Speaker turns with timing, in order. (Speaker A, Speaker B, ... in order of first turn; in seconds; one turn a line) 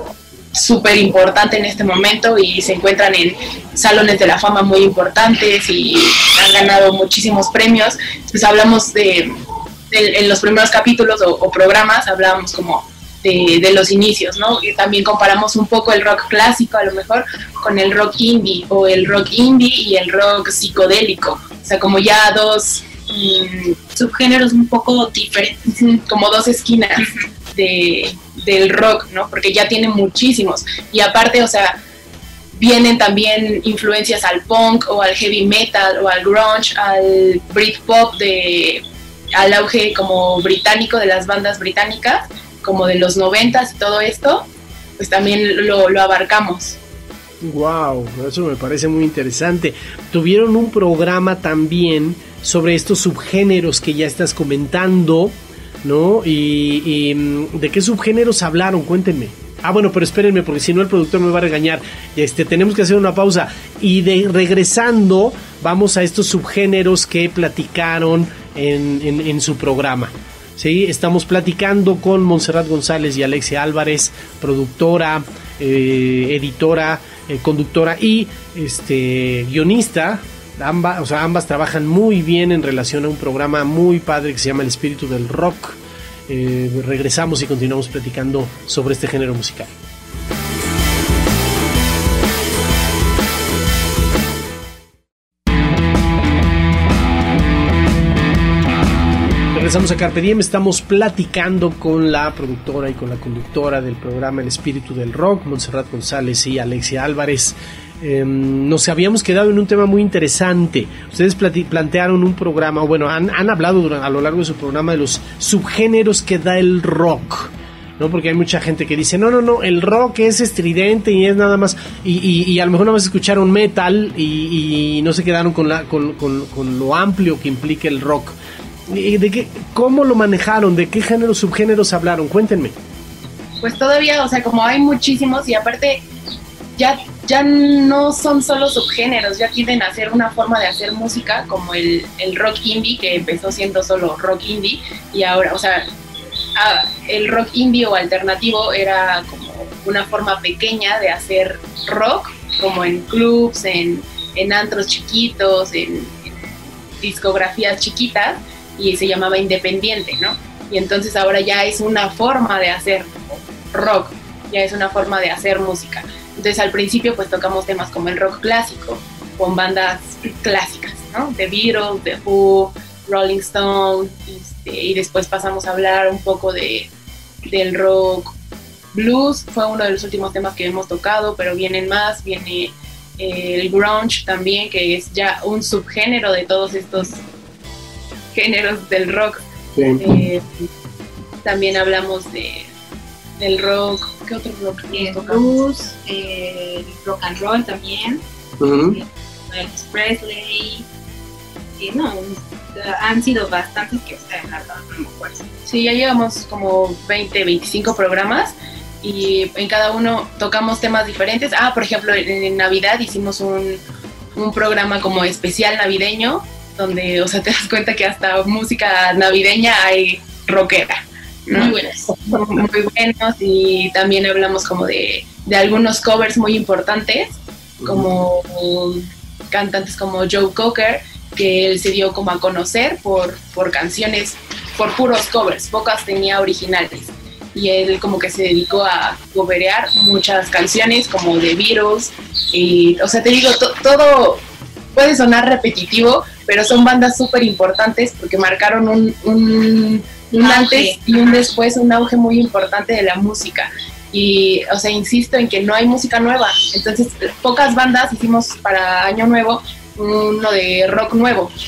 Speaker A: 0.5-9.3
Speaker A: 9.9-23.8
Speaker B: 23.9-25.7
Speaker A: 25.7-31.8
Speaker A: 32.5-46.8
Speaker C: 47.4-89.7
Speaker C: 99.5-128.4
Speaker C: 128.9-132.8
Speaker A: 133.6-136.0
Speaker A: 136.8-145.9
Speaker A: 146.6-176.9
Speaker A: 177.4-178.3
Speaker A: 178.9-187.2
Speaker A: 188.3-189.4
Speaker C: 189.8-190.0
Speaker A: 190.0-190.7
Speaker A: 191.4-192.7
Speaker A: 193.4-195.6
Speaker B: 194.9-198.2
Speaker C: 198.6-199.0
Speaker B: 198.8-200.9
Speaker B: 201.8-205.4
Speaker A: 205.7-213.8
Speaker A: 214.3-244.4
Speaker B: 221.5-222.3
Speaker C: 227.8-228.1
Speaker A: 244.9-261.5
Speaker B: 250.3-251.5